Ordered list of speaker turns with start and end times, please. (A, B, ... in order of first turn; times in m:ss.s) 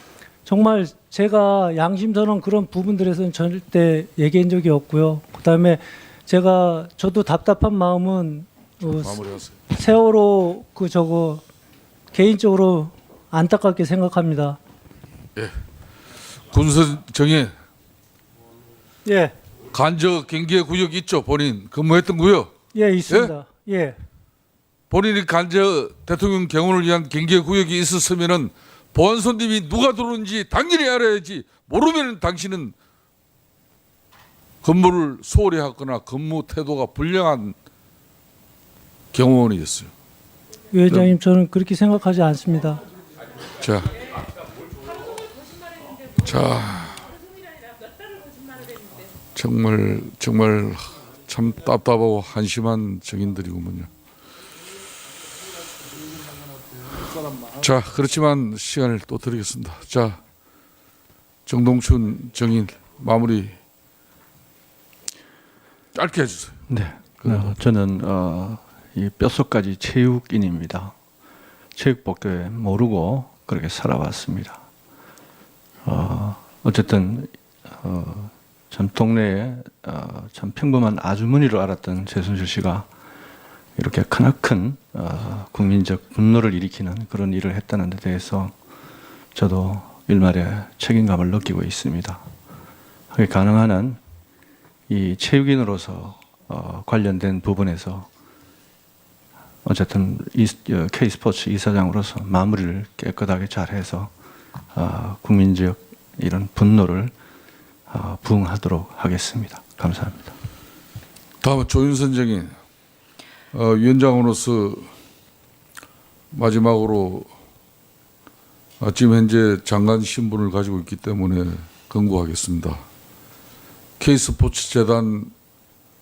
0:00.4-0:11.4 A
0:08.8-0:09.6 B
0:12.1-0:14.6 A
0:16.5-0:17.5 B
0:19.0-0:19.3 A
0:19.7-0:22.5 B
0:22.7-0:24.0 A
0:23.1-0:23.3 B
0:24.9-0:32.7 B
0:34.6-0:37.6 B
0:39.1-0:39.9 B
0:40.7-0:42.8 A
0:40.9-0:41.1 B
0:43.6-0:44.0 B
0:46.2-0:47.1 B
0:49.3-0:53.9 B
0:57.5-1:00.2 B
1:01.4-1:03.6 B
1:05.9-1:06.6 B
1:06.7-1:11.0 C
1:07.2-1:07.5 B
1:11.8-1:14.6 C
1:15.8-1:22.9 C
1:23.8-1:28.6 C
1:29.3-1:32.3 C
1:33.1-1:34.0 C
1:34.9-1:38.1 C
1:39.6-1:44.1 C
1:44.7-1:47.1 C
1:47.9-1:50.3 C
1:51.4-1:52.5 B
1:53.5-1:54.9 B
1:56.3-1:57.3 B
1:58.8-2:02.8 B
2:04.0-2:05.3 B